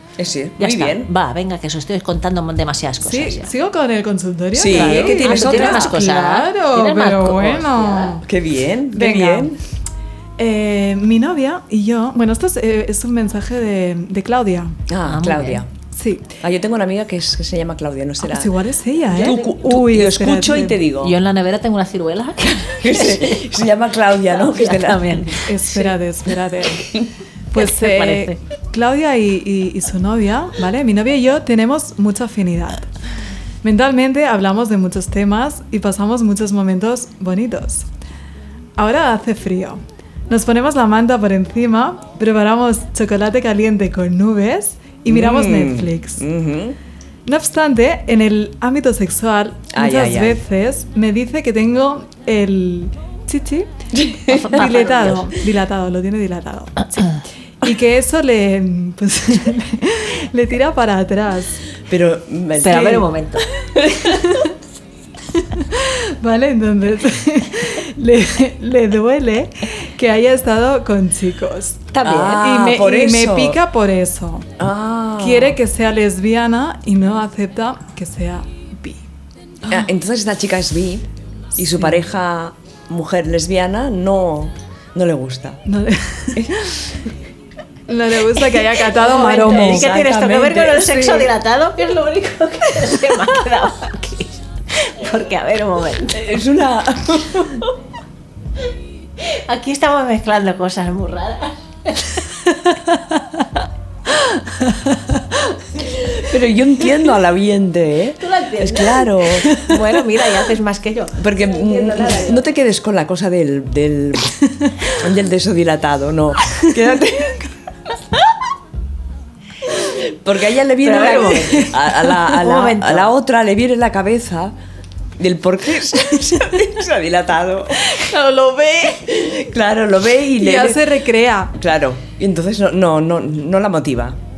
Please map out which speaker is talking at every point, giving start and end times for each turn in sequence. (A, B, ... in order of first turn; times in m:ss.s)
0:00.2-0:01.1 A
0:00.6-0:03.5 B
0:03.0-0:08.3 C
0:04.5-0:06.0 A
0:04.7-0:08.1 B
0:08.2-0:09.6 A
0:08.9-0:09.6 C
0:10.4-0:14.8 C
0:14.9-0:15.7 A
0:15.1-0:15.6 B
0:16.0-0:16.4 C
0:16.4-0:18.6 A
0:18.2-0:20.8 C
0:19.1-0:21.2 A
0:21.0-0:23.5 B
0:22.7-0:25.4 A
0:24.3-0:26.0 B
0:25.5-0:26.9 C
0:27.5-0:32.9 C
0:27.6-0:28.4 B
0:33.6-0:37.9 C
0:38.8-0:46.2 C
0:45.1-0:46.8 A
0:47.3-0:53.7 C
0:49.7-0:50.4 A
0:53.9-0:54.6 A
0:54.3-1:01.7 C
0:54.3-0:55.3 B
1:01.9-1:03.1 A
1:02.6-1:03.5 B
1:03.8-1:04.2 A
1:04.0-1:04.5 C
1:05.3-1:14.5 C
1:11.9-1:13.6 A
1:14.6-1:15.6 A
1:15.2-1:19.0 C
1:19.7-1:25.6 A
1:25.7-1:26.8 C
1:27.9-1:29.9 C
1:29.0-1:36.2 B
1:29.1-1:31.1 A
1:36.1-1:37.7 A
1:39.2-1:42.2 B
1:46.2-1:49.5 A
1:48.2-1:52.4 B
1:51.2-1:57.5 A
1:59.9-2:04.6 A
2:00.8-2:03.1 B
2:01.0-2:01.7 C
2:05.2-2:08.0 A
2:07.8-2:09.4 C
2:09.1-2:11.0 A
2:10.4-2:11.5 C
2:11.5-2:14.2 A